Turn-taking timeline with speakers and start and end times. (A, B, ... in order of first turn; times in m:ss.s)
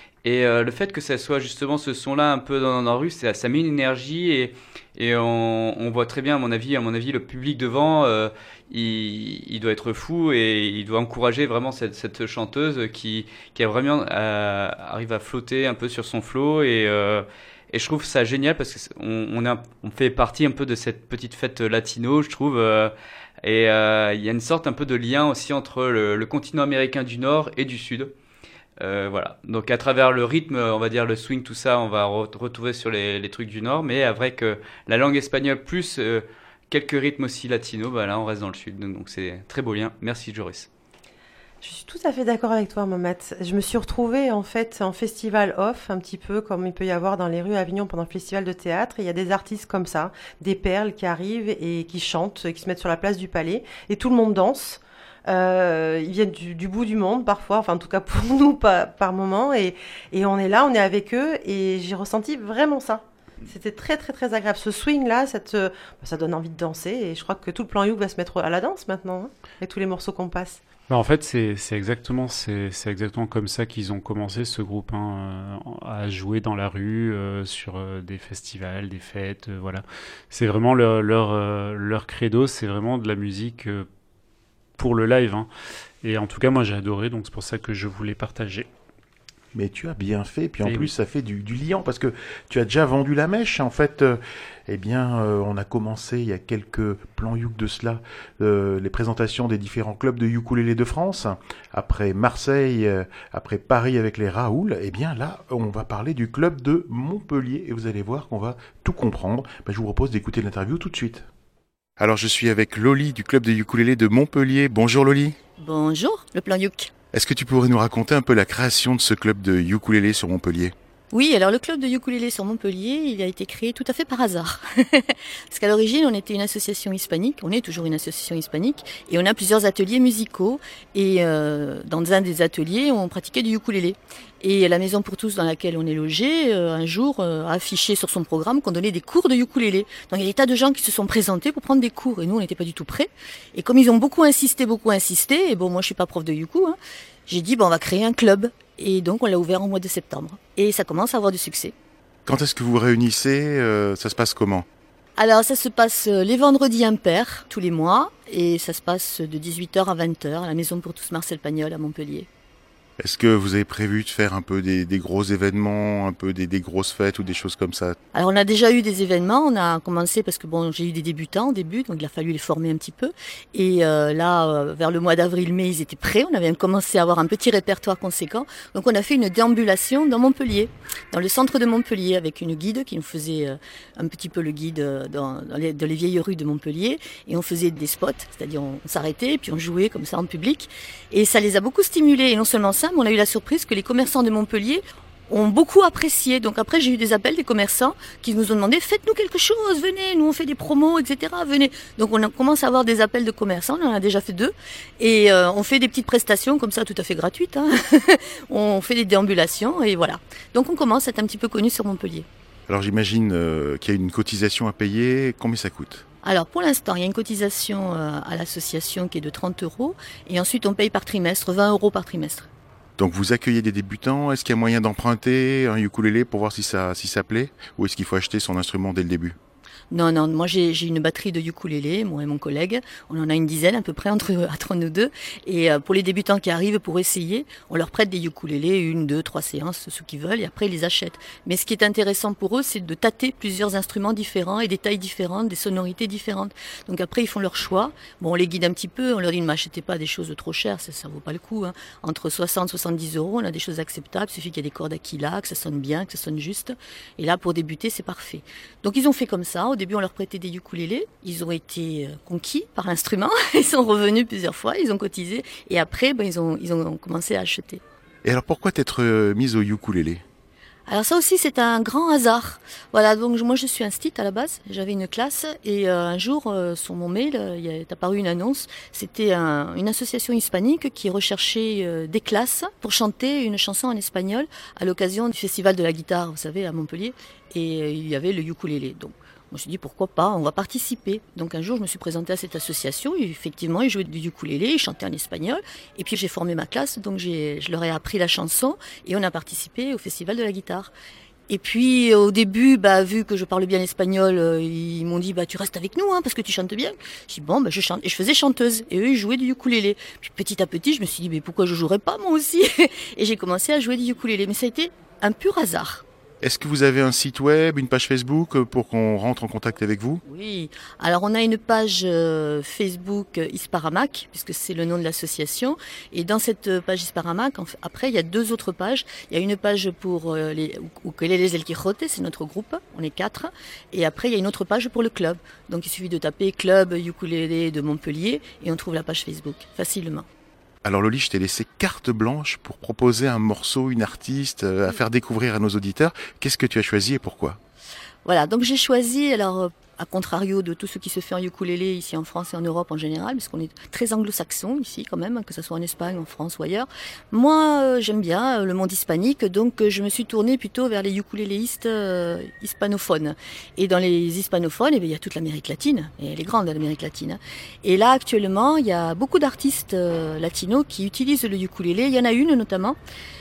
0:00.2-0:28.1 A
0:28.8-0:40.7 A
0:41.6-1:10.6 B
1:10.9-1:23.9 C
1:24.8-1:25.5 C
1:26.0-1:28.7 C
1:29.5-1:51.3 D
1:30.6-1:30.9 C
1:52.0-1:55.4 D
1:55.6-1:56.9 E
1:57.1-2:00.7 D
2:01.1-2:31.7 E
2:32.2-2:34.7 D
2:35.2-2:42.3 E
2:43.0-2:48.0 D
2:48.1-3:32.3 E
3:32.7-3:36.0 D
3:36.2-3:42.5 E
3:43.0-3:49.4 D
3:49.9-4:27.8 E
4:28.2-4:30.2 D
4:30.9-5:00.9 E
5:01.5-5:16.0 E
5:16.4-5:20.2 D
5:20.3-5:40.3 E
5:40.8-5:47.6 D
5:48.2-6:13.0 E